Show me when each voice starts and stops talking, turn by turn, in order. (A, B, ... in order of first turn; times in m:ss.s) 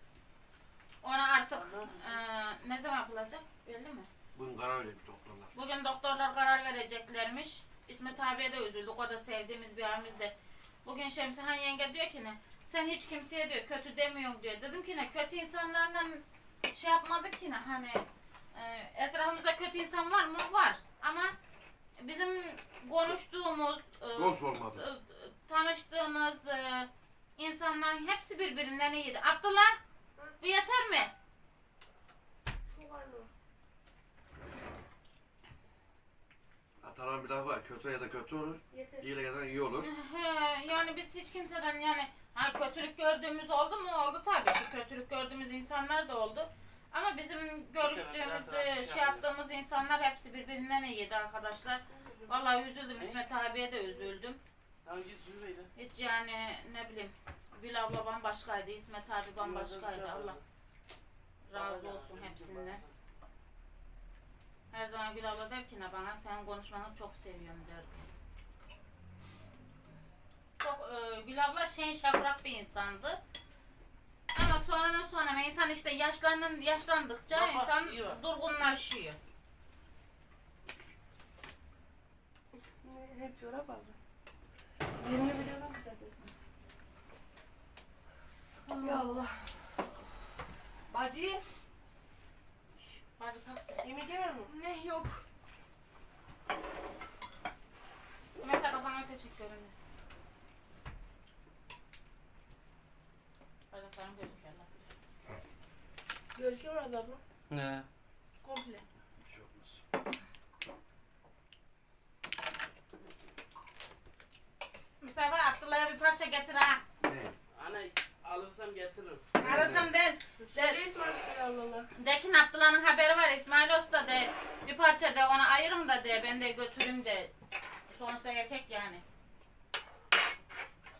0:01.0-0:04.1 A
0:01.5-0:02.1 B
0:04.4-0:05.5 C
0:05.5-0:21.3 A
0:22.0-0:29.8 A
0:24.2-0:24.8 C
0:30.4-0:31.1 A
0:32.7-0:33.3 D
0:36.8-0:39.9 C
0:38.7-0:39.0 D
0:39.8-0:54.4 A
0:47.8-0:49.2 B
0:52.0-0:52.3 D
0:54.8-0:55.7 B
0:55.8-1:00.4 A
0:59.4-1:00.4 B
1:01.4-1:02.8 A
1:01.5-1:02.9 B
1:04.7-1:08.1 A
1:10.6-1:13.2 A
1:14.3-1:19.2 A
1:17.3-1:18.2 B
1:22.6-1:24.0 D
1:25.0-1:26.1 D
1:28.7-1:29.1 A
1:28.8-1:29.8 D
1:30.9-1:31.4 D
1:33.2-1:33.8 A
1:33.8-1:35.2 D
1:38.4-1:39.8 A
1:43.7-1:44.9 A
1:46.4-1:47.2 D
1:47.5-1:47.9 B
1:48.4-1:48.8 D
1:49.2-1:49.8 C
1:55.0-1:56.8 A
1:57.0-1:57.4 C
1:57.5-1:59.3 B
1:59.4-2:00.8 A
1:59.4-1:59.9 C
2:00.4-2:01.9 D
2:02.0-2:07.3 A
2:07.9-2:09.0 A